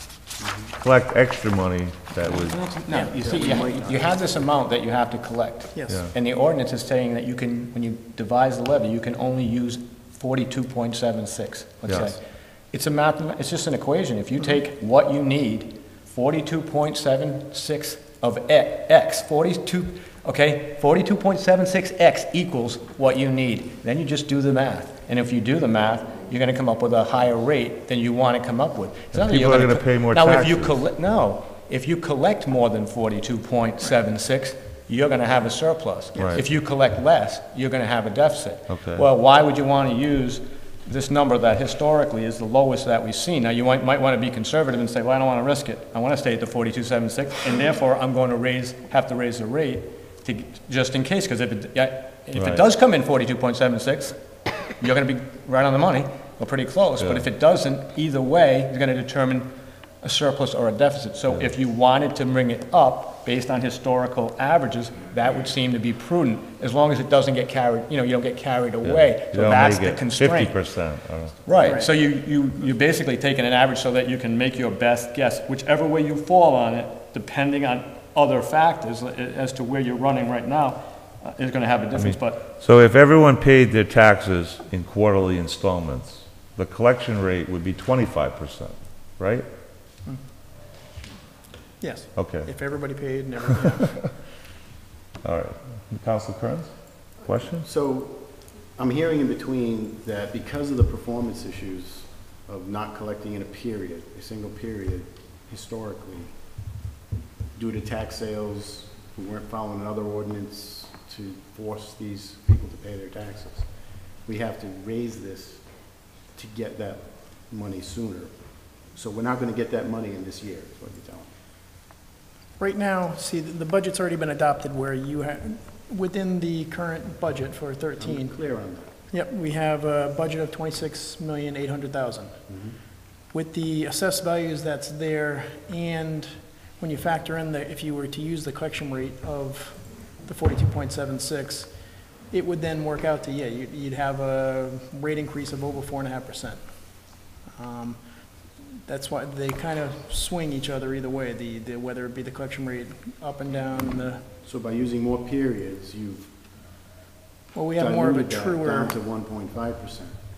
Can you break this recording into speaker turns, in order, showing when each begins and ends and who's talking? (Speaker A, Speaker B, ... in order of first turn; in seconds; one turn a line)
Speaker A: 0.4-0.7
Speaker B: 0.8-2.6
Speaker C: 2.2-12.2
Speaker D: 2.9-3.2
Speaker A: 3.1-4.2
Speaker D: 5.8-6.1
Speaker C: 12.7-54.2
Speaker B: 29.1-30.8
Speaker D: 36.1-36.4
Speaker B: 38.7-39.0
Speaker B: 52.4-52.6
Speaker C: 54.8-59.5
Speaker C: 60.0-70.5
Speaker B: 68.8-71.4
Speaker C: 71.5-82.5
Speaker D: 71.6-71.9
Speaker B: 82.0-89.5
Speaker D: 91.8-94.1
Speaker B: 92.2-92.5
Speaker B: 95.2-96.7
Speaker B: 97.3-97.7
Speaker A: 97.4-106.3
Speaker A: 107.6-113.7
Speaker A: 114.2-121.3
Speaker D: 122.6-128.3
Speaker A: 128.0-128.9
Speaker D: 129.1-132.4
Speaker A: 132.5-132.8
Speaker D: 133.3-141.7
Speaker D: 142.3-146.6
Speaker D: 147.6-148.0
Speaker D: 148.9-154.2
Speaker A: 154.4-156.3
Speaker D: 157.5-158.9
Speaker A: 157.8-160.2